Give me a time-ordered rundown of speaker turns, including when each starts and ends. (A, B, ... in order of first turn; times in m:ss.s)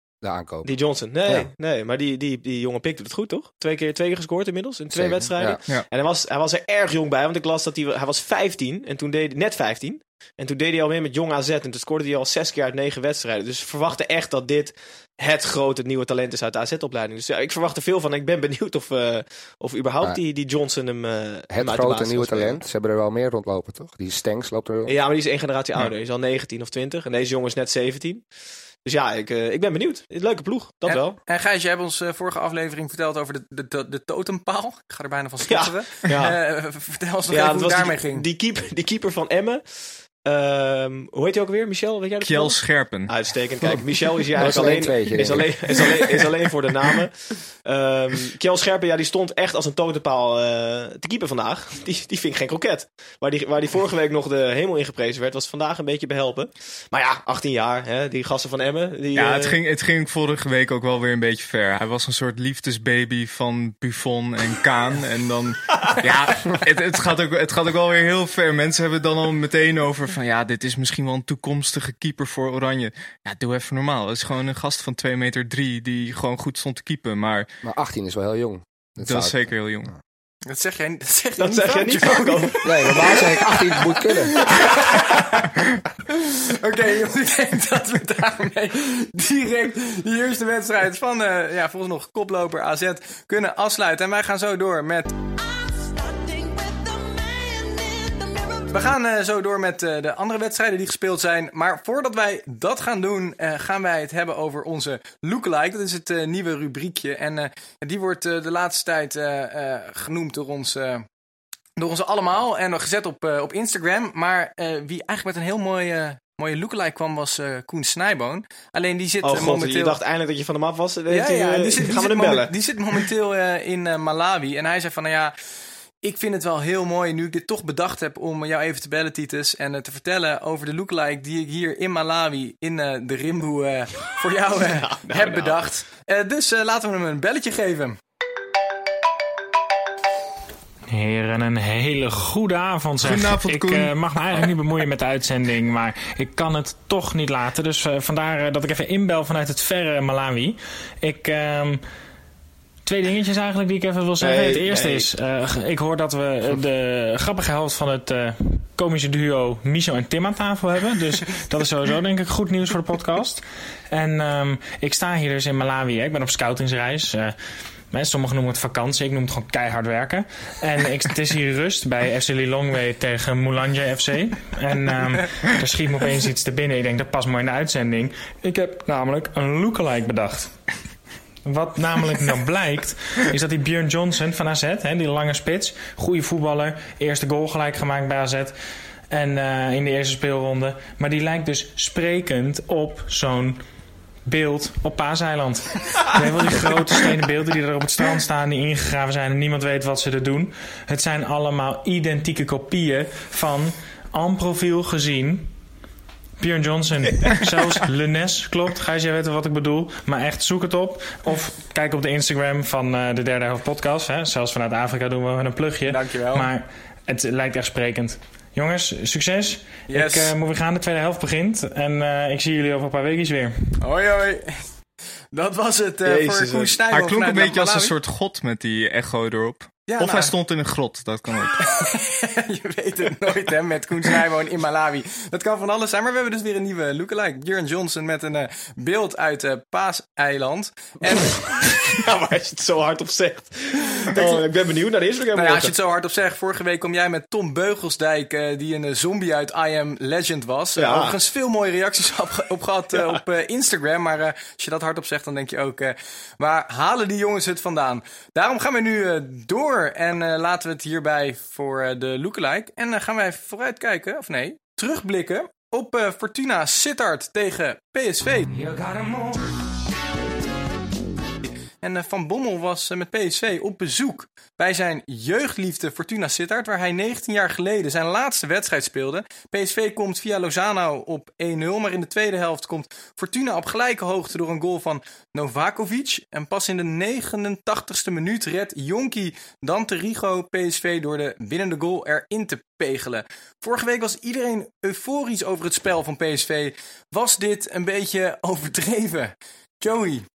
0:00.2-0:00.7 A
0:00.6-0:22.6 B
0:04.9-0:05.6 A
0:21.5-0:25.0 A
0:24.9-0:28.2 B
0:28.8-0:31.2 B
0:30.9-0:38.2 C
0:35.5-0:36.4 B
0:37.3-0:59.6 B
0:42.2-0:43.8 D
0:44.4-0:45.9 A
0:59.1-1:17.5 D
1:17.6-1:19.4 A
1:19.0-1:19.9 D
1:20.5-1:23.3 C
1:21.4-1:23.3 B
1:22.6-1:24.5 A
1:24.3-1:25.4 C
1:26.1-1:35.2 C
1:38.5-1:51.1 C
1:51.8-2:00.0 C
1:59.2-2:02.5 B
2:01.1-2:05.3 C
2:06.0-2:18.0 C
2:14.6-2:15.7 B
2:20.9-2:31.8 E
2:23.0-2:24.5 D
2:32.8-2:47.4 E
2:34.2-2:35.1 B
2:47.9-3:00.5 E
3:01.5-3:08.6 E
3:09.1-3:13.6 E
3:14.3-3:25.5 E
3:26.4-3:43.5 E
3:35.9-3:36.5 C
3:39.9-3:40.3 C
3:43.8-3:44.6 C
3:45.3-3:47.9 C
3:46.0-3:46.8 B
3:46.9-3:51.6 D
3:49.9-3:50.3 C
3:51.6-4:01.4 C
4:01.1-4:05.7 B
4:05.4-4:28.6 C
4:10.8-4:11.2 B
4:13.0-4:13.2 B
4:31.4-5:00.2 C